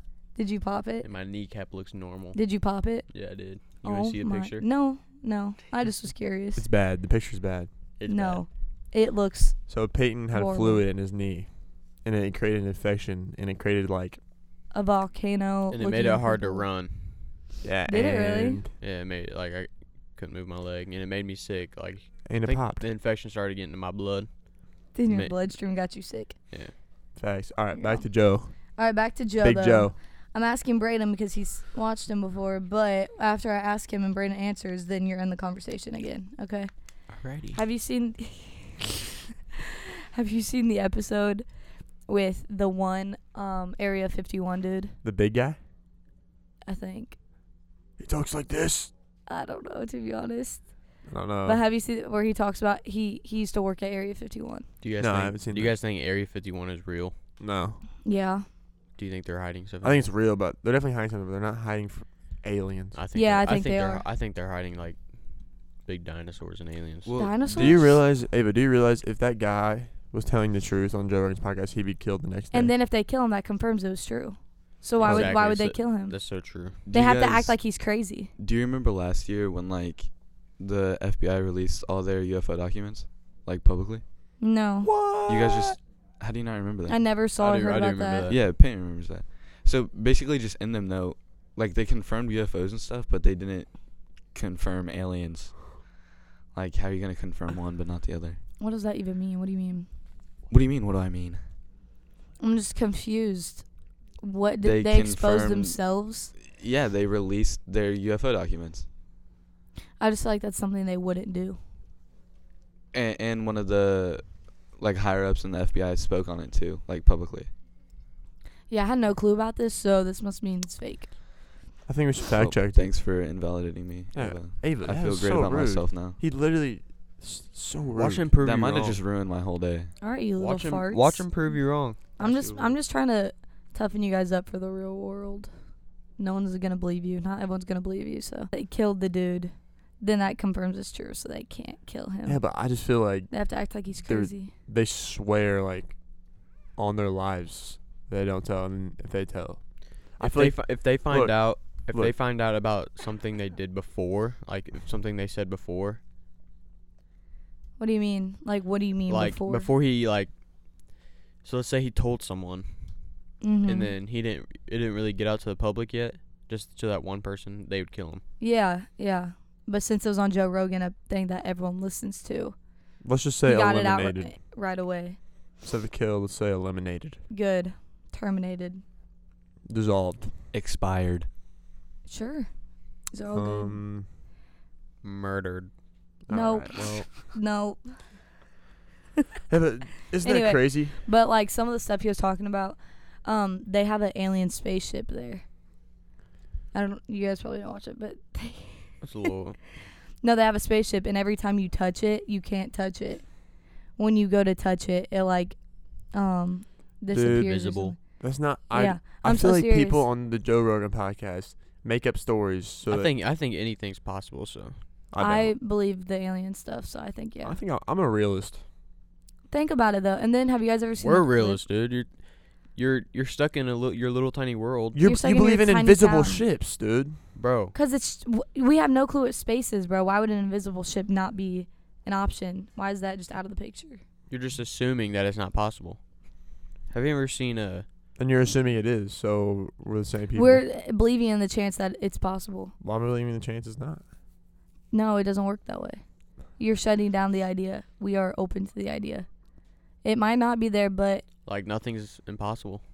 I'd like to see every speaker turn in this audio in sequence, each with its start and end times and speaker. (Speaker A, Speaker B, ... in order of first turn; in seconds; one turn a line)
Speaker A: 0.3-1.1
Speaker B: 1.0-2.4
Speaker A: 2.3-3.1
Speaker B: 3.1-4.6
Speaker A: 3.8-6.7
Speaker C: 6.5-7.7
Speaker B: 8.0-8.4
Speaker A: 8.1-9.6
Speaker C: 9.7-14.2
Speaker A: 10.3-10.8
Speaker A: 14.7-16.6
Speaker B: 15.7-17.3
Speaker C: 17.6-18.7
Speaker A: 17.9-18.6
Speaker B: 18.8-25.4
Speaker C: 22.2-22.8
Speaker A: 24.9-26.4
Speaker C: 27.1-28.7
Speaker A: 27.8-28.0
Speaker A: 28.7-36.7
Speaker C: 29.4-29.9
Speaker B: 37.1-37.6
Speaker A: 37.5-39.0
Speaker A: 40.1-41.5
Speaker A: 42.0-44.9
Speaker C: 45.0-45.6
Speaker A: 46.6-47.1
Speaker C: 48.0-48.9
Speaker A: 49.3-50.7
Speaker C: 51.1-51.6
Speaker A: 51.4-54.7
Speaker B: 54.8-57.1
Speaker C: 55.0-55.8
Speaker C: 57.4-57.8
Speaker A: 58.0-58.4
Speaker B: 59.0-60.1
Speaker C: 59.8-63.0
Speaker B: 62.9-67.1
Speaker A: 63.1-64.0
Speaker D: 67.0-68.0
Speaker A: 67.2-67.9
Speaker C: 67.5-72.7
Speaker A: 72.5-76.1
Speaker B: 75.0-76.8
Speaker D: 75.0-75.3
Speaker D: 76.8-77.6
Speaker A: 76.9-78.3
Speaker D: 78.4-84.0
Speaker A: 84.4-84.9
Speaker C: 84.8-85.7
Speaker D: 85.2-87.0
Speaker A: 86.9-88.3
Speaker B: 87.4-88.5
Speaker D: 88.3-95.9
Speaker D: 96.5-98.4
Speaker A: 98.6-99.9
Speaker D: 100.5-101.4
Speaker A: 102.4-103.7
Speaker A: 104.2-106.3
Speaker D: 104.6-105.8
Speaker D: 106.4-108.8
Speaker A: 110.0-111.6
Speaker D: 112.9-117.5
Speaker A: 118.7-121.1
Speaker C: 121.9-122.9
Speaker D: 122.4-126.2
Speaker C: 124.1-128.3
Speaker B: 127.9-129.0
Speaker D: 128.4-129.9
Speaker A: 130.0-131.3
Speaker B: 130.4-132.0
Speaker A: 132.2-135.5
Speaker D: 132.2-132.7
Speaker A: 136.2-142.4
Speaker C: 142.2-146.0
Speaker A: 143.3-144.5
Speaker C: 146.7-149.6
Speaker C: 150.2-152.1
Speaker B: 150.2-156.0
Speaker A: 157.8-159.7
Speaker B: 159.1-160.3
Speaker B: 161.4-162.7
Speaker A: 163.4-163.9
Speaker B: 163.6-168.2
Speaker A: 168.4-172.5
Speaker C: 173.0-174.3
Speaker A: 173.4-175.2
Speaker C: 175.6-177.2
Speaker A: 177.3-178.8
Speaker C: 179.7-180.3
Speaker D: 180.5-181.3
Speaker A: 182.1-182.5
Speaker A: 183.1-183.8
Speaker C: 183.3-184.1
Speaker B: 185.0-185.7
Speaker C: 186.3-187.1
Speaker A: 186.3-188.0
Speaker C: 189.5-191.0
Speaker A: 190.2-195.4
Speaker A: 196.7-199.0
Speaker B: 199.0-199.6
Speaker A: 200.2-203.3
Speaker A: 203.9-205.6
Speaker A: 206.1-208.0
Speaker C: 207.1-213.1
Speaker B: 207.2-207.9
Speaker A: 208.7-210.1
Speaker B: 212.9-214.8
Speaker C: 215.1-215.5
Speaker A: 215.2-217.6
Speaker C: 217.4-218.6
Speaker A: 219.5-221.6
Speaker B: 221.0-222.2
Speaker B: 222.7-225.0
Speaker C: 224.9-227.2
Speaker A: 225.0-226.4
Speaker B: 227.3-227.7
Speaker A: 227.7-234.0
Speaker B: 234.3-236.0
Speaker B: 236.9-237.8
Speaker C: 238.2-240.6
Speaker A: 240.3-242.7
Speaker C: 242.8-244.0
Speaker A: 244.9-246.0
Speaker A: 246.6-249.3
Speaker A: 250.0-251.2
Speaker B: 251.4-252.8